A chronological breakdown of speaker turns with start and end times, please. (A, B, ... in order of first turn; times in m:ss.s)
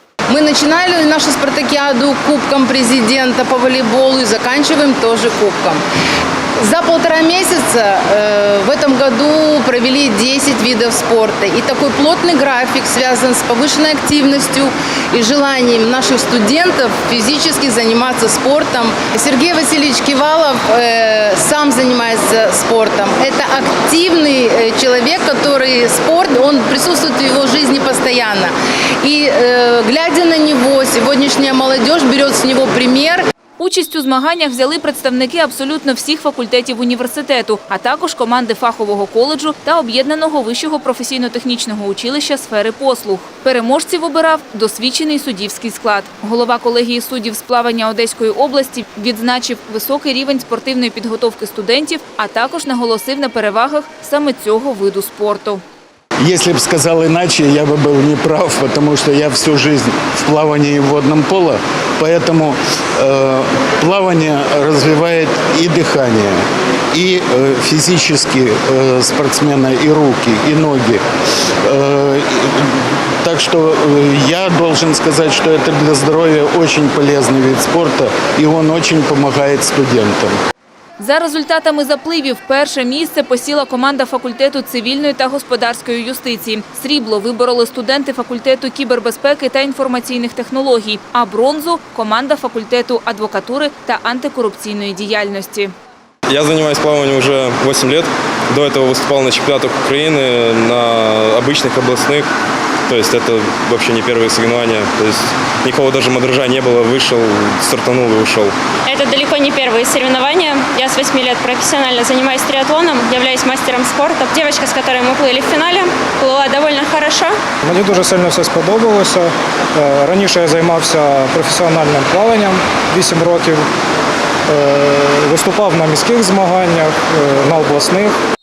0:00.3-0:05.8 A
0:06.6-0:33.2 A
0:33.6-0:55.6 B
0:56.2-1:11.0 C
1:11.7-1:20.4 C
1:21.0-1:35.7 B
1:36.3-1:42.3 D
1:42.9-1:48.5 D
1:48.9-1:57.3 E
1:57.6-2:03.6 F
2:04.5-2:08.2 F